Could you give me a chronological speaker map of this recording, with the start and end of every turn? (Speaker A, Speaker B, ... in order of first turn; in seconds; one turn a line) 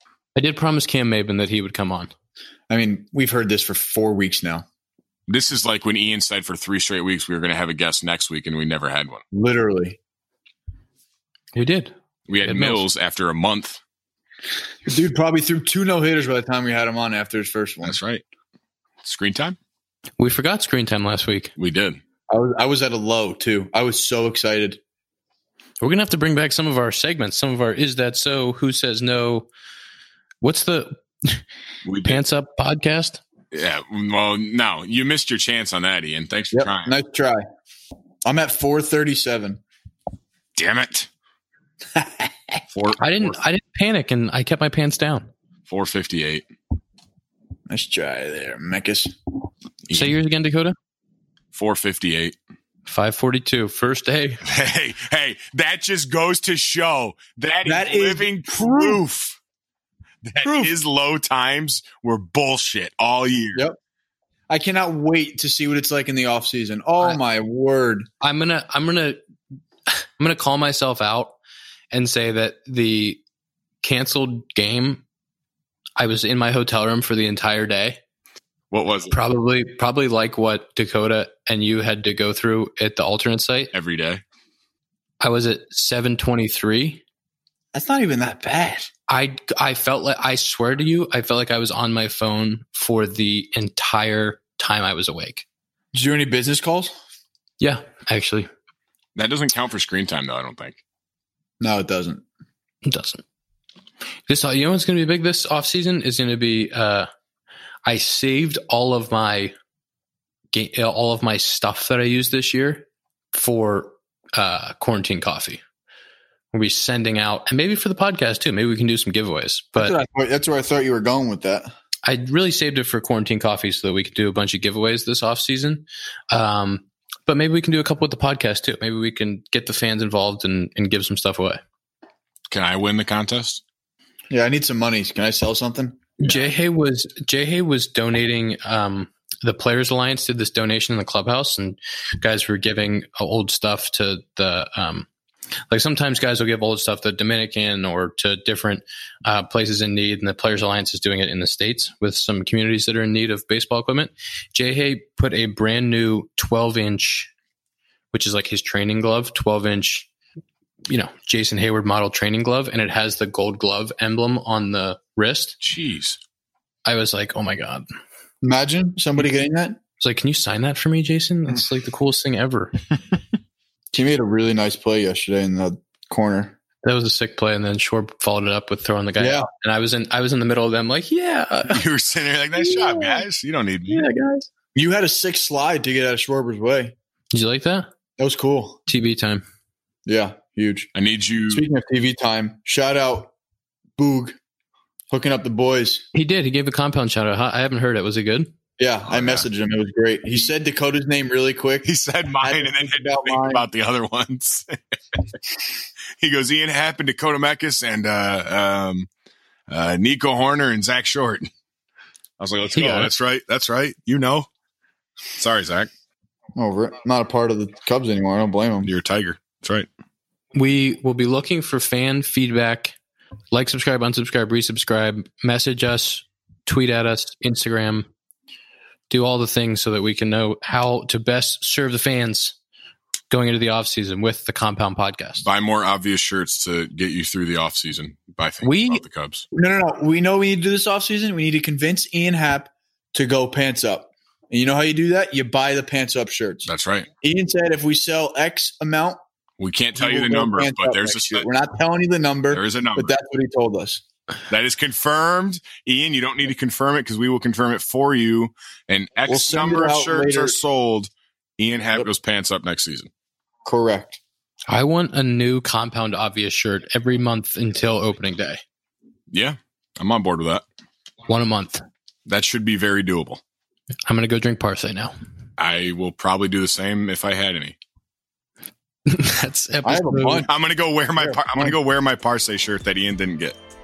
Speaker A: 0.3-2.1
Speaker B: 2.7-4.7
Speaker C: 5.3-9.2
Speaker B: 9.3-10.0
Speaker A: 11.5-12.8
Speaker C: 12.3-13.8
Speaker B: 14.9-18.0
Speaker C: 17.8-18.2
Speaker C: 19.0-19.6
Speaker A: 20.2-21.5
Speaker C: 21.6-22.0
Speaker B: 22.3-24.8
Speaker A: 25.8-29.5
Speaker A: 30.4-31.4
Speaker C: 31.9-32.2
Speaker A: 32.0-33.2
Speaker C: 33.5-36.9
Speaker B: 36.5-37.4
Speaker B: 38.2-39.6
Speaker C: 40.6-41.1
Speaker B: 42.0-42.6
Speaker C: 42.7-43.4
Speaker A: 43.0-45.3
Speaker C: 45.7-46.5
Speaker B: 47.7-49.1
Speaker C: 49.9-50.1
Speaker A: 49.9-50.8
Speaker C: 51.5-52.4
Speaker A: 52.9-54.4
Speaker C: 54.5-59.4
Speaker B: 57.6-59.0
Speaker C: 60.2-63.6
Speaker B: 60.4-60.7
Speaker B: 64.5-68.1
Speaker A: 68.2-69.2
Speaker A: 69.9-71.4
Speaker A: 71.9-73.2
Speaker A: 73.8-75.0
Speaker A: 76.0-78.0
Speaker C: 78.7-79.2
Speaker A: 79.1-83.7
Speaker C: 83.7-84.2
Speaker A: 85.2-87.0
Speaker B: 87.7-88.9
Speaker A: 89.1-95.5
Speaker B: 95.9-96.9
Speaker A: 97.6-98.5
Speaker C: 99.2-100.8
Speaker B: 101.6-102.2
Speaker A: 102.8-103.2
Speaker A: 104.3-107.1
Speaker A: 107.8-109.5
Speaker A: 110.5-115.6
Speaker A: 116.5-120.0
Speaker B: 119.8-121.7
Speaker A: 122.0-131.6
Speaker C: 132.5-133.6
Speaker B: 134.3-136.3
Speaker A: 136.2-145.1
Speaker A: 145.7-157.3
Speaker A: 158.1-160.1
Speaker A: 160.9-165.6
Speaker C: 165.6-166.2
Speaker A: 166.8-167.9
Speaker B: 168.4-169.8
Speaker A: 170.0-172.7
Speaker B: 173.9-176.6
Speaker A: 176.8-181.8
Speaker B: 179.2-179.5
Speaker C: 181.7-184.1
Speaker A: 182.6-183.2
Speaker A: 183.9-184.5
Speaker B: 184.8-186.9
Speaker A: 187.3-187.9
Speaker B: 188.2-188.8
Speaker A: 188.9-189.4
Speaker B: 190.1-190.9
Speaker C: 190.9-191.7
Speaker B: 191.5-193.3
Speaker B: 194.0-194.4
Speaker B: 195.1-196.1
Speaker A: 196.1-198.5
Speaker B: 198.8-203.7
Speaker C: 199.1-199.4
Speaker C: 201.8-204.7
Speaker C: 206.2-209.1
Speaker C: 209.7-211.5
Speaker C: 212.4-214.5
Speaker A: 212.8-213.1
Speaker C: 215.4-215.9
Speaker B: 216.6-218.9
Speaker C: 218.8-219.9
Speaker A: 220.5-223.0
Speaker A: 223.5-228.1
Speaker A: 229.1-232.6
Speaker A: 233.3-235.5
Speaker C: 235.4-239.5
Speaker A: 238.6-239.0
Speaker B: 239.5-246.7
Speaker C: 246.7-247.1
Speaker B: 247.2-249.2
Speaker C: 249.6-251.5
Speaker B: 250.0-254.0
Speaker C: 252.5-253.1
Speaker C: 254.5-263.1
Speaker B: 259.3-260.6
Speaker B: 263.6-264.2
Speaker A: 264.7-268.6
Speaker C: 269.3-270.6
Speaker A: 271.3-271.8
Speaker C: 272.3-273.4
Speaker A: 274.1-275.1
Speaker C: 275.6-277.8
Speaker A: 279.1-280.5
Speaker B: 279.8-280.5
Speaker C: 280.5-283.6
Speaker B: 281.2-281.7